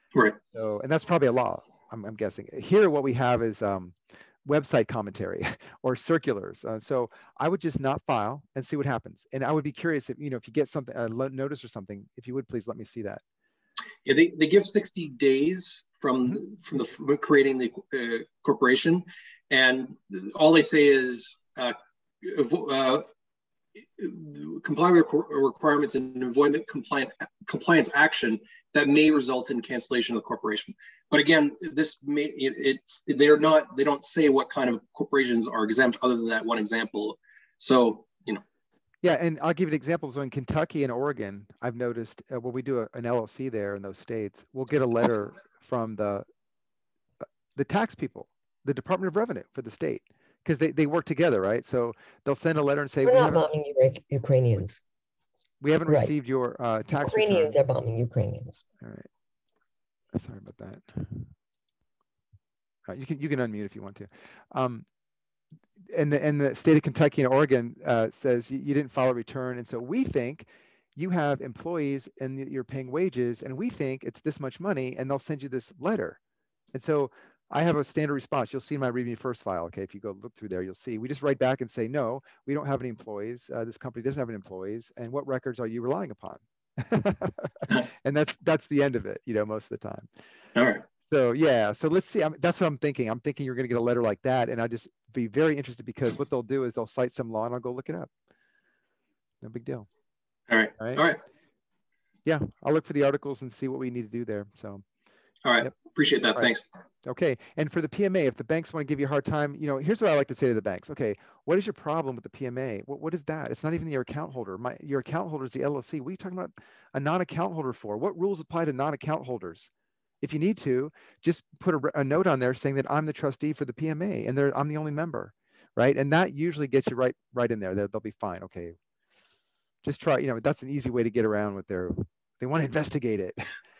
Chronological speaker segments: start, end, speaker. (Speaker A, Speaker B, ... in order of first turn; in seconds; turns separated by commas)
Speaker A: 0.5-13.2, Speaker B: 14.0-23.1, Speaker B: 23.9-38.4, Speaker A: 39.0-46.2, Speaker A: 47.5-53.4, Speaker C: 53.0-54.8, Speaker A: 55.6-57.5, Speaker C: 55.9-56.1, Speaker C: 57.0-58.6, Speaker A: 58.8-59.1, Speaker A: 60.1-61.3, Speaker A: 62.9-64.8, Speaker A: 65.9-76.2, Speaker A: 76.7-90.1, Speaker B: 90.5-90.8, Speaker A: 91.1-98.1, Speaker A: 99.4-99.9, Speaker B: 100.5-101.2, Speaker A: 100.8-101.0, Speaker A: 102.2-104.8, Speaker B: 105.4-106.6, Speaker A: 107.0-119.7, Speaker A: 120.2-128.7, Speaker A: 129.8-133.4